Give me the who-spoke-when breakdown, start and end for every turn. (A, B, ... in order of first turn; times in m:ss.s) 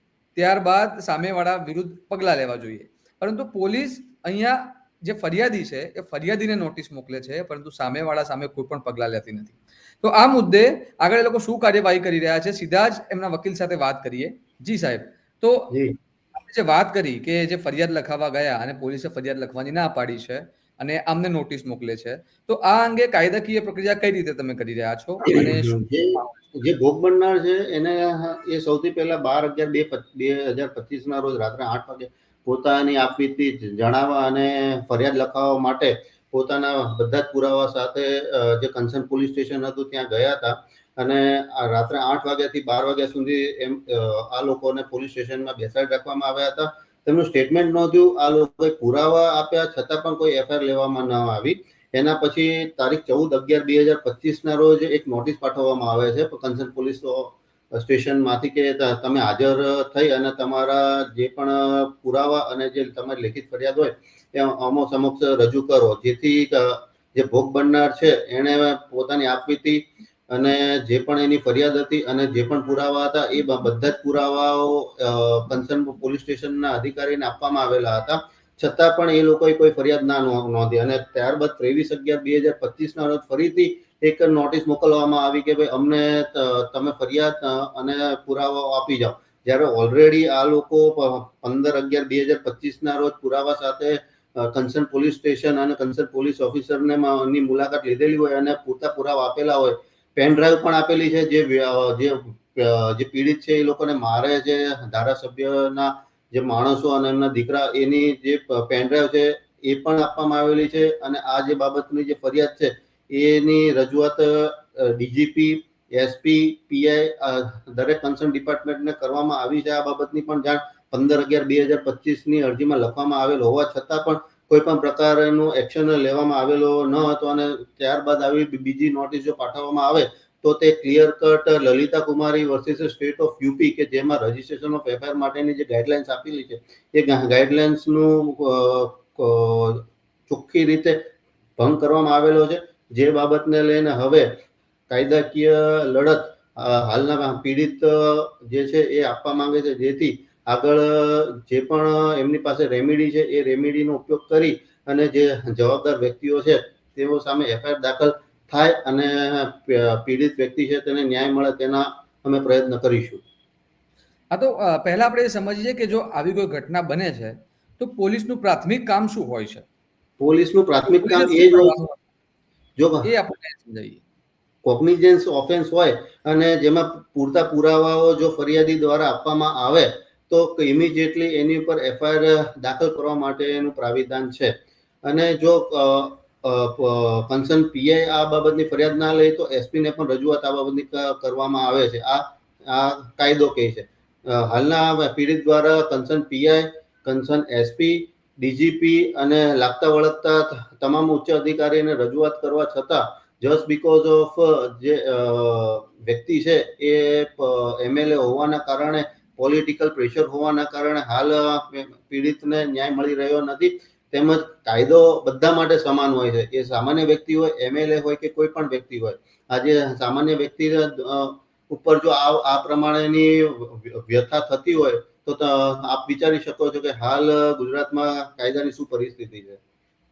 0:00.4-0:15.7 A
0:15.7-0:16.0 B
0:16.4-0:26.3 A
0:25.3-2:21.0 B
2:21.6-2:24.3 B
2:24.9-2:43.2 B
2:44.3-2:49.6 A
2:50.2-2:51.8 B
2:51.0-2:52.0 A
2:52.8-2:53.1 B
2:53.0-2:54.0 A
2:54.6-3:49.6 B